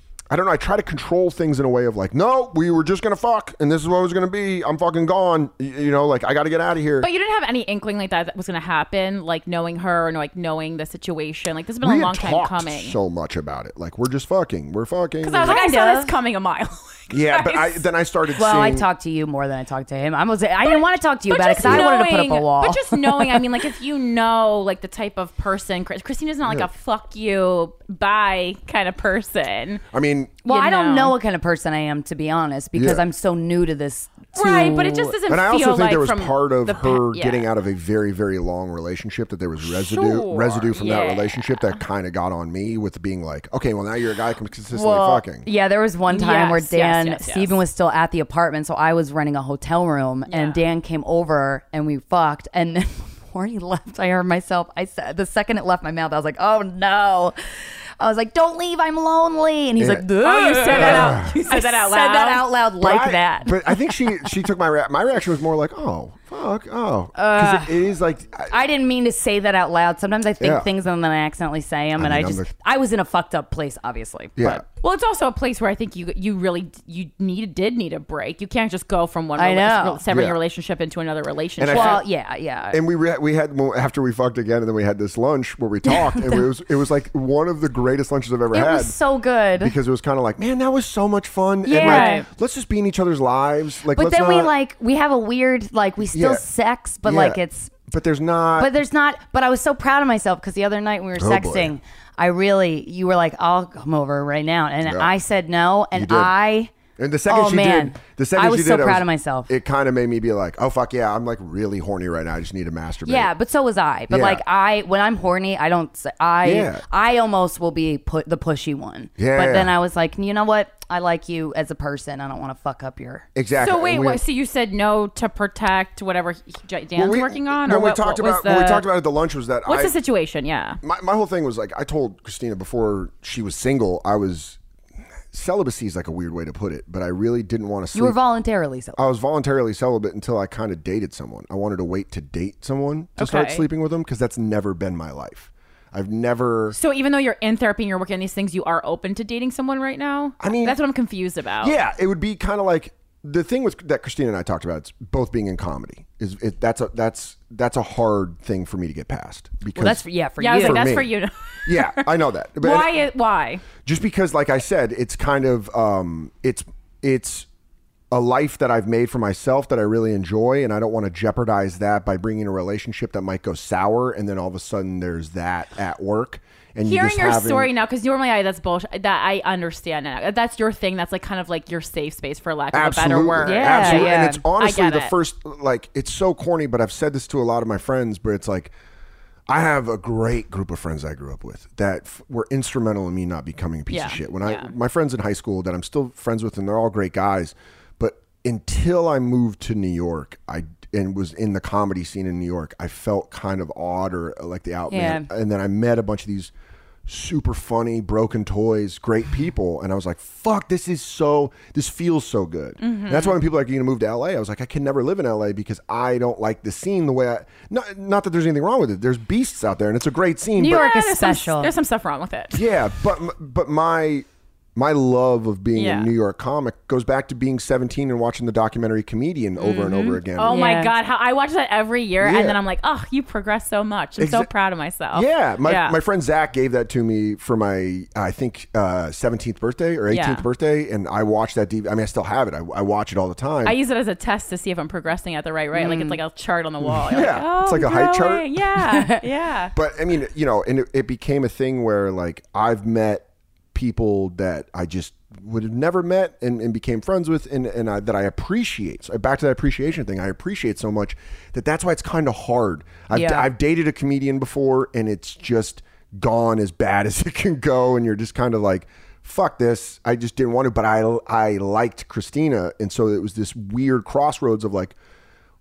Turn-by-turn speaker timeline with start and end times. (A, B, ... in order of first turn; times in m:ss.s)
0:00.3-0:07.1 A
0:07.0-0:13.0 B
0:11.8-0:15.6 A
0:15.2-0:17.9 B
0:15.4-0:16.1 C
0:17.1-0:18.9 A
0:18.3-0:23.6 C
0:20.7-0:29.8 B
0:29.9-0:30.4 A
0:30.4-0:35.2 C
0:30.4-0:31.2 B
0:32.8-0:33.0 A
0:34.3-0:37.5 B
0:35.3-0:45.5 A
0:39.6-0:41.8 B
0:44.7-1:04.4 C
0:46.1-0:47.6 B
0:50.3-0:50.6 B
0:59.8-1:00.1 A
1:00.2-1:02.5 B
1:00.7-1:01.4 A
1:02.8-1:08.6 A
1:07.2-1:07.9 C
1:08.5-1:14.6 C
1:10.4-1:10.7 A
1:12.0-1:12.5 A
1:14.4-1:14.6 A
1:14.7-1:22.0 B
1:19.4-1:20.0 C
1:20.1-1:20.4 A
1:21.6-1:22.0 A
1:21.7-1:22.8 C
1:22.7-1:28.9 A
1:25.9-1:26.4 C
1:28.5-1:29.8 C
1:29.6-1:34.5 A
1:31.6-1:32.2 C
1:31.7-1:32.3 B
1:33.9-1:37.8 C
1:36.1-1:36.4 A
1:37.0-1:38.7 A
1:38.6-1:46.8 C
1:41.2-1:41.8 A
1:44.8-1:45.1 A
1:45.9-1:46.3 A
1:47.0-1:53.3 A
1:47.3-1:49.5 C
1:53.0-2:03.3 C
1:54.1-1:54.4 A
1:56.4-1:56.8 A
1:59.2-1:59.7 A
2:03.4-2:04.2 A
2:03.6-2:08.9 B
2:07.0-2:10.0 A
2:09.7-2:10.8 B
2:10.8-2:14.6 A
2:15.3-2:18.2 A
2:17.9-2:19.0 C
2:19.0-2:26.8 A
2:23.2-2:23.6 B
2:26.7-2:31.8 B
2:30.4-2:30.8 A
2:31.6-2:41.1 A
2:39.8-2:41.0 C
2:40.4-2:43.7 B
2:41.6-2:43.1 A
2:43.8-2:47.5 A
2:48.1-2:57.7 A
2:56.8-3:05.1 B
3:02.7-3:08.7 A
3:03.4-3:04.4 C
3:09.5-3:26.5 A
3:13.9-3:14.7 B
3:24.9-3:25.3 C
3:27.1-3:40.9 A
3:32.8-3:33.4 B
3:40.6-3:41.7 C
3:40.6-3:42.7 B
3:42.5-3:50.6 A
3:45.8-3:46.1 B
3:49.6-3:50.9 C
3:50.4-3:56.0 B
3:52.2-3:52.6 A
3:54.2-3:54.5 A
3:55.1-4:03.8 A
4:00.1-4:00.4 B
4:03.6-4:09.7 B
4:05.7-4:06.2 C
4:06.8-4:08.5 A
4:08.8-4:09.2 C
4:09.8-4:35.0 A
4:23.1-4:23.5 C